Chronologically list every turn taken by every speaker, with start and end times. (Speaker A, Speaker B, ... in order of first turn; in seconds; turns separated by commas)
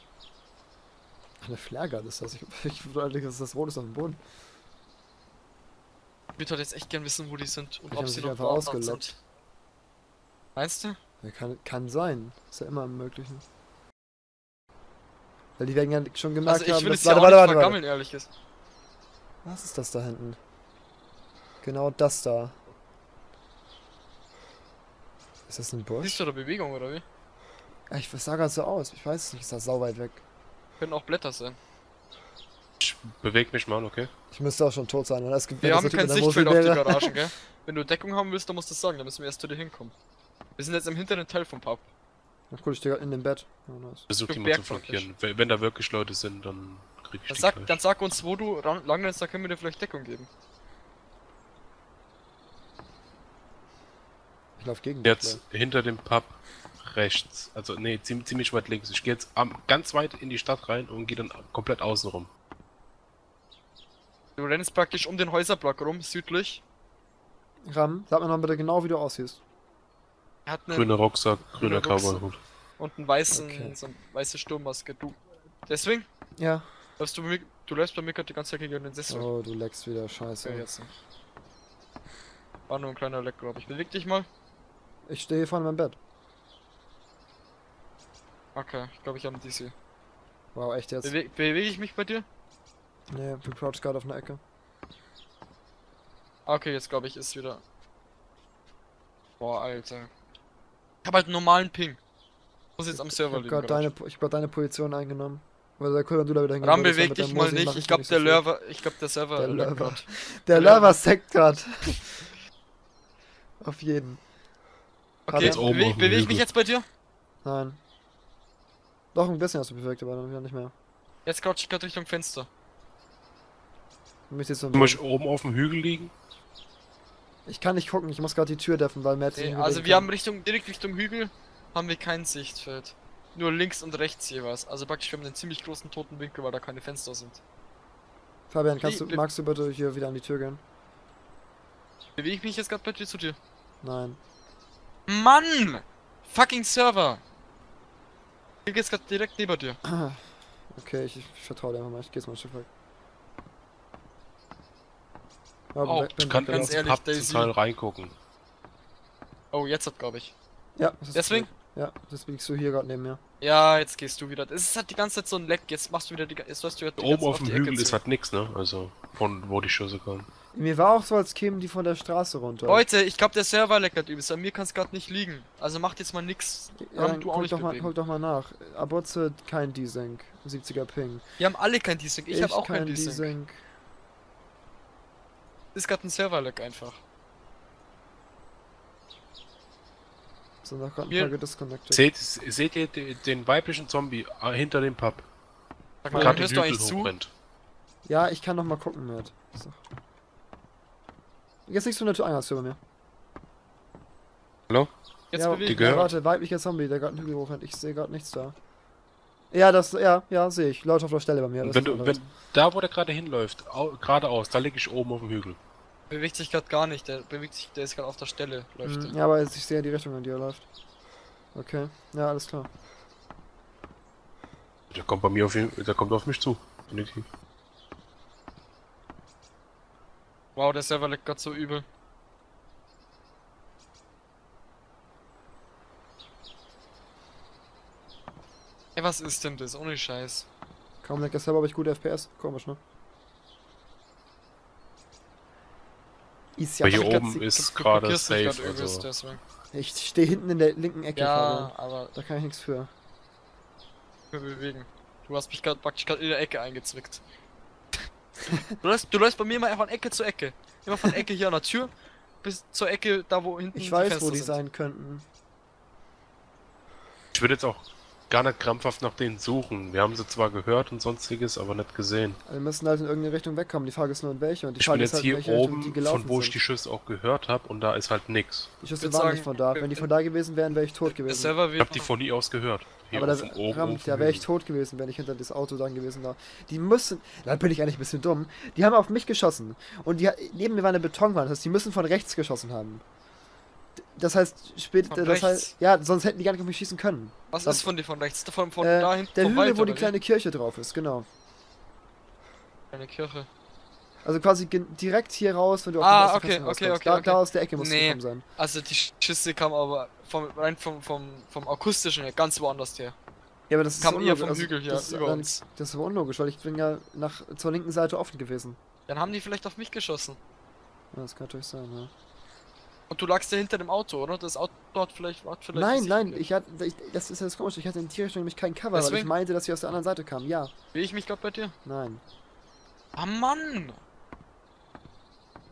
Speaker A: 1.4-4.2, Speaker B: 6.4-9.2, Speaker A: 7.9-9.1, Speaker B: 10.6-11.0, Speaker A: 11.2-13.4, Speaker A: 15.6-17.8, Speaker B: 16.4-18.3, Speaker A: 19.4-20.4, Speaker A: 21.6-22.6, Speaker A: 25.5-26.2, Speaker B: 26.0-27.0, Speaker A: 27.9-30.2, Speaker B: 30.8-31.6, Speaker C: 32.8-34.1, Speaker A: 34.3-37.2, Speaker B: 35.6-39.9, Speaker B: 40.6-41.9, Speaker A: 42.5-44.1, Speaker C: 44.1-47.8, Speaker B: 44.3-45.1, Speaker B: 47.3-50.3, Speaker A: 54.6-55.4, Speaker C: 55.0-62.3, Speaker B: 64.4-66.6, Speaker A: 67.7-69.4, Speaker B: 70.5-70.9, Speaker C: 70.7-72.4, Speaker B: 71.6-72.2, Speaker B: 72.8-76.1, Speaker A: 73.3-73.8, Speaker A: 76.4-76.7, Speaker B: 77.0-79.3, Speaker A: 79.1-80.7, Speaker B: 80.4-80.9, Speaker B: 82.7-84.3, Speaker A: 85.1-86.0, Speaker B: 88.5-89.7, Speaker A: 90.5-91.1, Speaker B: 91.0-92.2, Speaker A: 93.1-94.4, Speaker B: 96.5-97.6, Speaker B: 99.4-100.1, Speaker B: 101.0-102.0, Speaker B: 102.8-103.9, Speaker A: 102.9-108.4, Speaker B: 106.6-111.0, Speaker A: 109.4-112.2, Speaker A: 113.6-114.2, Speaker B: 115.3-116.8, Speaker A: 115.3-115.6, Speaker C: 115.4-116.5, Speaker A: 117.4-117.8, Speaker A: 119.1-120.7, Speaker B: 121.2-122.5, Speaker A: 124.3-125.0, Speaker C: 124.7-126.1, Speaker A: 127.5-130.1, Speaker B: 129.3-137.4, Speaker A: 138.5-140.6, Speaker B: 138.8-139.2, Speaker B: 142.2-143.4, Speaker A: 143.8-144.2, Speaker B: 145.1-147.2, Speaker B: 148.7-149.8, Speaker A: 149.8-152.7, Speaker A: 155.7-156.8, Speaker B: 155.8-157.5, Speaker C: 156.2-158.1, Speaker B: 159.5-160.3, Speaker A: 160.8-163.2, Speaker B: 161.1-161.5, Speaker B: 163.4-168.0, Speaker C: 167.0-170.3, Speaker A: 170.5-172.9, Speaker B: 172.7-177.9, Speaker A: 176.8-181.2, Speaker B: 181.4-183.3, Speaker A: 182.3-183.6, Speaker B: 185.7-187.0, Speaker A: 190.6-192.0, Speaker B: 191.1-191.3, Speaker C: 191.9-195.2, Speaker B: 196.0-197.1, Speaker A: 196.1-196.4, Speaker C: 196.1-197.3, Speaker A: 198.1-199.8, Speaker A: 201.7-202.8, Speaker B: 205.3-206.1, Speaker A: 205.3-208.6, Speaker C: 205.6-206.1, Speaker A: 209.5-212.2, Speaker C: 211.6-215.6, Speaker B: 216.1-219.1, Speaker A: 218.8-220.6, Speaker A: 221.5-222.7, Speaker C: 224.9-227.3, Speaker B: 230.6-231.8, Speaker B: 238.9-240.5, Speaker A: 241.0-242.8, Speaker A: 246.6-247.5, Speaker C: 246.8-249.1, Speaker B: 247.0-249.4, Speaker A: 249.7-252.9, Speaker B: 251.1-252.1, Speaker B: 254.3-257.2, Speaker B: 258.8-264.6, Speaker A: 263.7-265.2, Speaker C: 267.3-272.4, Speaker A: 272.4-276.6, Speaker C: 274.8-278.7, Speaker A: 278.8-281.6, Speaker B: 279.0-280.1, Speaker B: 281.1-282.1, Speaker C: 281.8-284.5, Speaker A: 283.1-293.0, Speaker A: 294.1-297.9, Speaker B: 295.1-295.7, Speaker B: 297.5-300.1, Speaker A: 298.8-301.3, Speaker B: 302.9-303.5, Speaker A: 304.2-308.4, Speaker B: 306.0-313.1, Speaker A: 313.7-318.8, Speaker B: 314.0-315.6, Speaker B: 319.1-320.4, Speaker A: 321.1-322.1, Speaker B: 323.1-326.4, Speaker A: 325.7-330.7, Speaker B: 328.9-329.3, Speaker B: 330.9-331.7, Speaker A: 331.8-332.2, Speaker B: 333.2-334.0